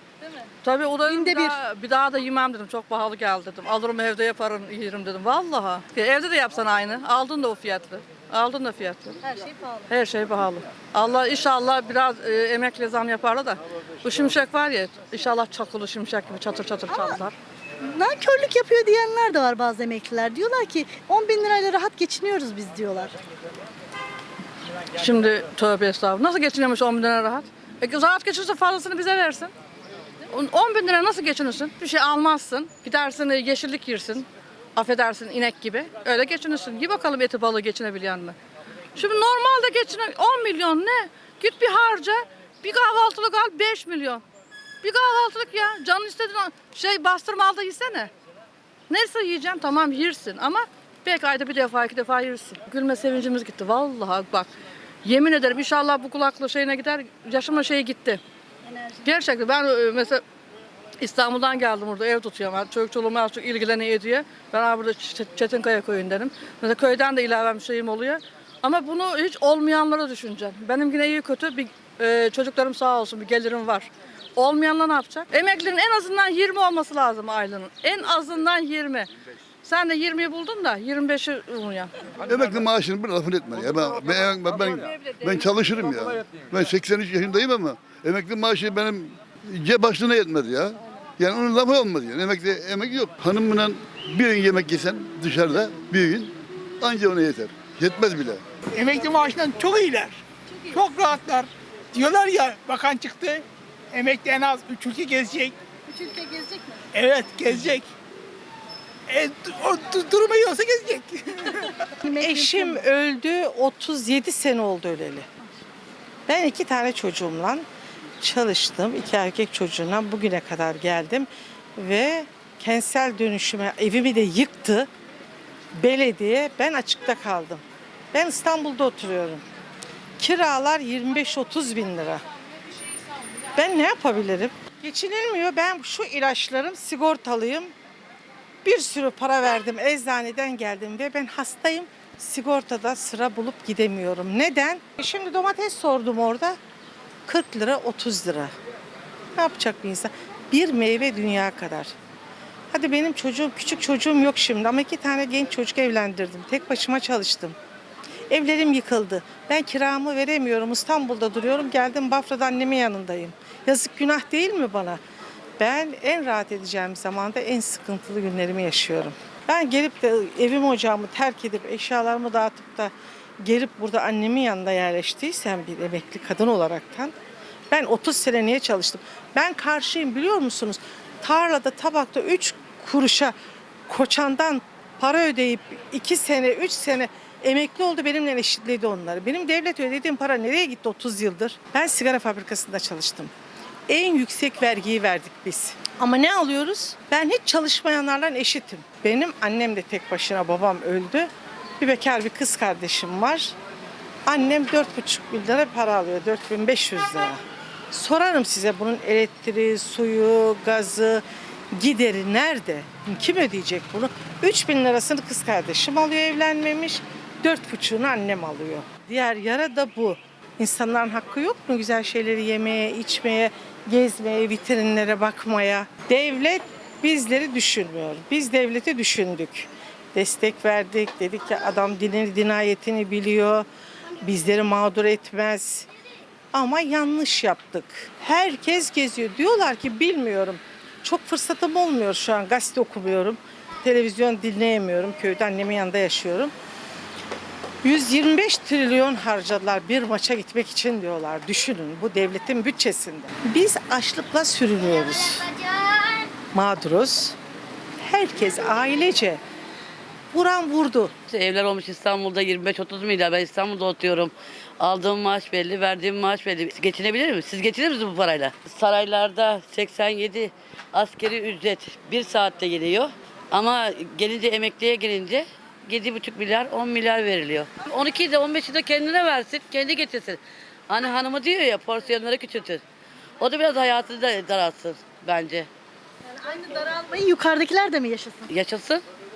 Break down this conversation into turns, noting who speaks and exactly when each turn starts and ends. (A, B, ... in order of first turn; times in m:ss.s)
0:00.6-0:09.2 A
0:01.1-0:01.6 B
0:09.2-0:09.9 B
0:09.9-0:17.3 A
0:16.9-0:17.2 B
0:17.9-0:23.1 B
0:25.0-0:29.5 A
0:30.3-0:38.4 A
0:39.0-0:44.2 A
0:44.8-0:48.1 A
0:48.9-0:54.5 A
0:55.0-0:58.2 A
0:59.0-1:00.2 A
1:01.0-1:19.1 A
1:19.6-1:21.9 A
1:22.2-1:38.4 C
1:24.3-1:25.5 A
1:38.7-1:45.6 D
1:45.9-1:46.8 B
1:46.9-1:47.9 D
1:49.1-1:51.5 D
1:52.0-1:52.9 B
1:52.2-1:55.3 E
1:56.3-1:57.6 E
1:58.2-2:04.9 E
2:05.8-2:09.4 E
2:10.2-2:12.2 E
2:13.6-2:17.7 E
2:18.6-2:26.6 E
2:27.3-2:28.5 E
2:29.4-2:31.9 E
2:32.7-2:37.6 E
2:38.3-2:45.0 E
2:45.6-2:57.1 E
2:57.7-3:03.3 E
3:03.9-3:13.3 E
3:13.9-3:23.5 E
3:24.2-3:27.4 E
3:27.9-3:53.6 E
3:54.2-3:55.9 E
3:56.5-4:06.5 E
4:07.8-4:15.4 E
4:16.5-4:17.4 E
4:18.0-4:19.4 E
4:20.3-4:21.1 E
4:21.3-4:42.8 F
4:43.4-4:45.7 F
4:46.4-4:48.4 B
4:48.5-4:49.0 F